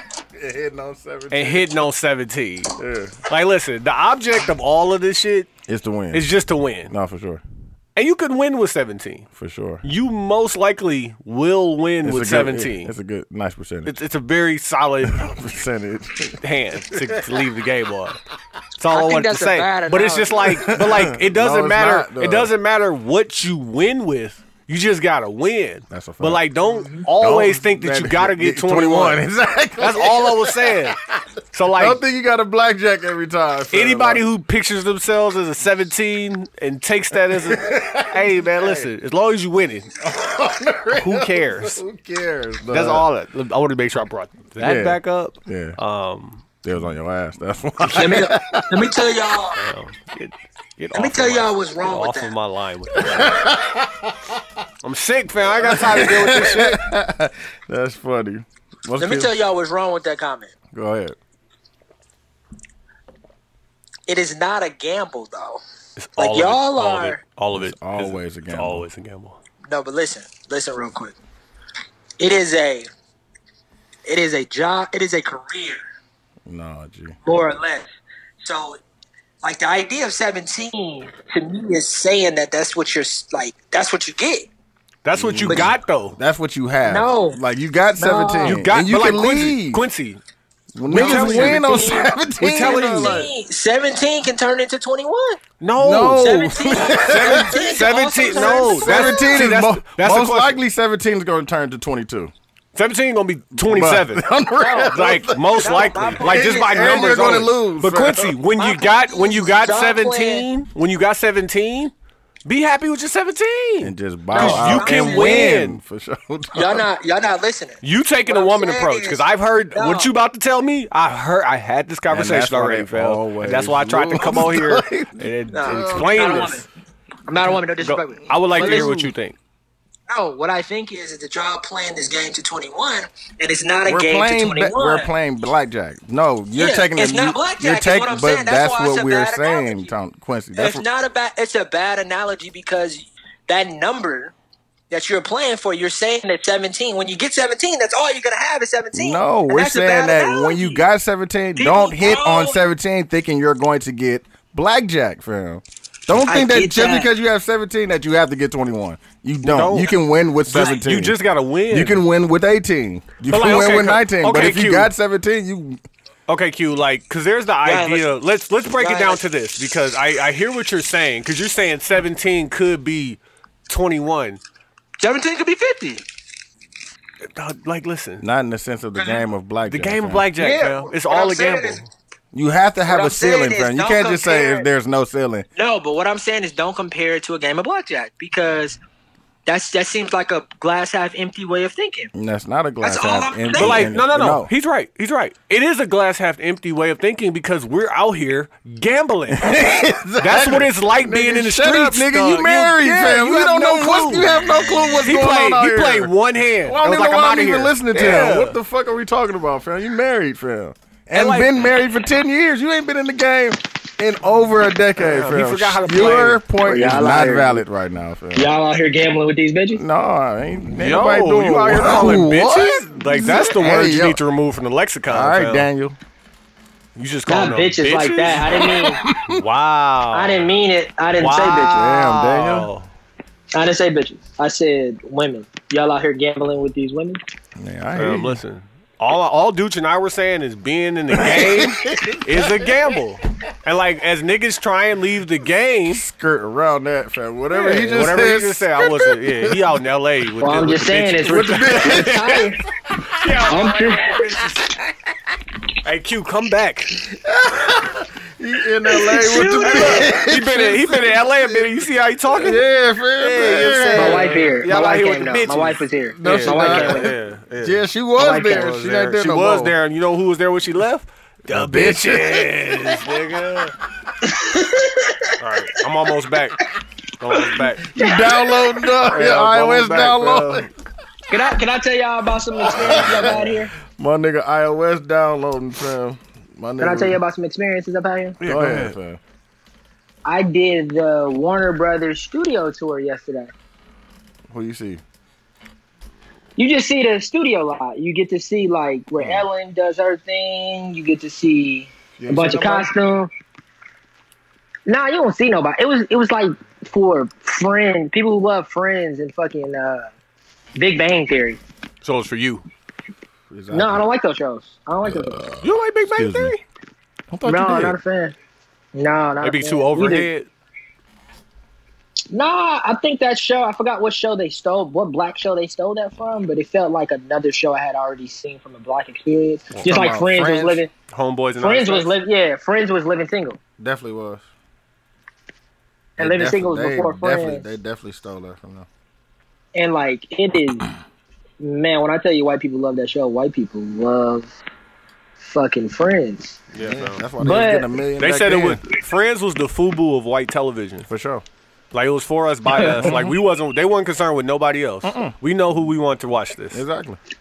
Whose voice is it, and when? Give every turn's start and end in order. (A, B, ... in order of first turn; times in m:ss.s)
0:00.3-0:01.7 A
0:01.3-0:02.7 B
0:02.8-0:03.2 A
0:03.3-0:05.5 B
0:05.7-0:06.3 A
0:06.1-0:06.9 B
0:06.9-0:07.4 A
0:08.0-0:09.3 B
0:09.4-0:09.9 A
0:09.8-0:12.9 B
0:12.0-0:14.0 A
0:13.8-0:15.3 B
0:15.0-0:17.4 A
0:16.4-0:18.2 B
0:18.8-0:29.2 B
0:18.9-0:20.5 C
0:20.5-0:22.5 A
0:25.9-0:26.5 A
0:26.7-0:27.0 C
0:27.1-0:31.2 A
0:29.8-0:31.0 B
0:31.5-0:32.0 B
0:31.7-0:34.2 A
0:33.7-0:39.9 B
0:37.3-0:38.9 A
0:40.0-0:43.1 A
0:40.9-0:41.8 B
0:42.7-0:46.4 B
0:44.6-0:45.8 A
0:46.6-0:48.9 A
0:47.9-0:49.6 C
0:49.6-0:53.5 B
0:50.9-0:52.3 C
0:52.9-0:54.4 A
0:54.8-0:56.8 B
0:55.6-0:59.3 A
0:59.0-1:00.5 C
1:00.7-1:01.2 A
1:04.1-1:05.6 C
1:06.0-1:09.4 B
1:06.2-1:07.2 C
1:07.5-1:08.9 A
1:09.7-1:11.1 C
1:12.2-1:12.9 C
1:14.1-1:15.8 C
1:16.4-1:17.2 A
1:17.2-1:17.9 C
1:18.4-1:18.8 C
1:19.4-1:24.5 C
1:25.0-1:26.2 B
1:25.1-1:29.8 A
1:25.5-1:25.7 C
1:26.8-1:27.4 C
1:28.0-1:28.6 C
1:28.4-1:30.2 B
1:30.7-1:33.3 A
1:30.9-1:33.2 B
1:30.9-1:35.4 C
1:35.6-1:40.6 B
1:35.8-1:42.3 A
1:36.2-1:39.4 C
1:42.7-1:44.3 B
1:43.5-1:48.4 A
1:44.6-1:47.4 C
1:44.9-1:51.9 B
1:48.6-1:50.5 C
1:52.4-1:55.8 B
1:53.8-1:56.9 A
1:54.3-1:55.6 C
1:56.5-1:59.2 C
1:57.8-2:06.7 B
1:59.7-2:00.1 C
2:02.1-2:06.6 A
2:05.5-2:06.6 C
2:07.3-2:08.9 C
2:07.5-2:09.4 B
2:08.5-2:09.1 A
2:10.1-2:15.1 C
2:13.8-2:20.8 A
2:16.5-2:19.9 C
2:20.6-2:24.3 C
2:24.9-2:30.8 C
2:28.9-2:41.2 A
2:31.6-2:32.6 C
2:36.1-2:37.1 C
2:39.4-2:42.0 B
2:41.7-2:45.8 A
2:43.3-2:44.9 B
2:46.3-2:54.4 B
2:47.6-2:48.1 C
2:48.8-2:49.2 C
2:55.0-2:56.0 C
2:57.3-2:58.2 B
2:58.2-3:00.3 A
2:59.7-3:01.9 B
3:00.4-3:01.8 C
3:02.3-3:05.5 A
3:02.8-3:04.7 C
3:05.6-3:08.8 C
3:09.4-3:12.1 C
3:12.1-3:14.5 A
3:12.8-3:13.9 C
3:13.5-3:19.5 B
3:19.3-3:26.1 A
3:20.2-3:28.6 B
3:26.6-3:38.5 A
3:31.1-3:31.7 B
3:35.0-3:36.4 B
3:36.6-3:37.6 C
3:38.3-3:39.8 C
3:39.7-3:44.2 A
3:40.8-3:45.7 B
3:45.1-3:46.0 A
3:47.0-3:48.7 B
3:47.3-3:49.0 C
3:48.4-3:49.4 A
3:49.3-3:50.5 B
3:50.1-3:51.9 C
3:51.1-3:52.9 B
3:51.7-3:52.7 A
3:53.5-3:57.2 C
3:57.6-3:58.4 A
3:57.9-4:06.0 B
4:01.1-4:02.8 A
4:05.8-4:09.7 A
4:07.5-4:12.4 B
4:10.4-4:12.6 C
4:11.1-4:13.4 A
4:13.2-4:14.6 B
4:13.5-4:14.2 C
4:14.3-4:14.9 A
4:15.8-4:17.0 B
4:17.1-4:24.4 A
4:19.1-4:20.1 C
4:19.6-4:22.6 B
4:23.2-4:27.8 B
4:24.0-4:27.1 C
4:26.1-4:29.7 A
4:28.2-4:28.6 C
4:28.4-4:33.7 B
4:31.5-4:32.8 A
4:34.2-4:35.3 C
4:35.4-4:36.7 B
4:37.2-4:37.9 B
4:37.9-4:40.7 A
4:37.9-4:38.8 C
4:39.0-4:40.7 B
4:41.3-4:43.7 C
4:42.6-4:47.2 A
4:42.9-4:43.5 B
4:46.8-4:48.4 C
4:48.4-4:48.9 B
4:48.4-4:49.2 A
4:50.2-4:53.5 C
4:54.5-4:55.0 A
4:56.6-5:03.3 C
4:59.2-4:59.4 A
5:02.2-5:02.9 A
5:04.9-5:10.1 C
5:10.8-5:11.6 C
5:12.0-5:12.6 B
5:13.5-5:14.1 A
5:13.7-5:15.4 C
5:15.0-5:16.5 A
5:15.6-5:16.6 B
5:17.3-5:18.0 A
5:17.4-5:18.3 C
5:18.9-5:20.3 C
5:19.4-5:20.5 B
5:22.3-5:30.9 C
5:29.8-5:30.8 A
5:31.1-5:32.1 B
5:31.6-5:33.6 C
5:33.8-5:34.4 A
5:36.2-5:38.9 A
5:36.2-5:37.7 C
5:39.7-5:40.9 C
5:41.6-5:44.5 C
5:45.4-5:46.6 C
5:46.7-5:47.2 B
5:46.8-5:48.8 A
5:47.4-5:47.9 C
5:48.2-5:51.1 B
5:51.1-5:51.4 A
5:51.9-5:56.8 B
5:52.7-5:53.0 C
5:52.9-5:53.4 A
5:55.0-5:55.4 A
5:56.7-5:57.2 A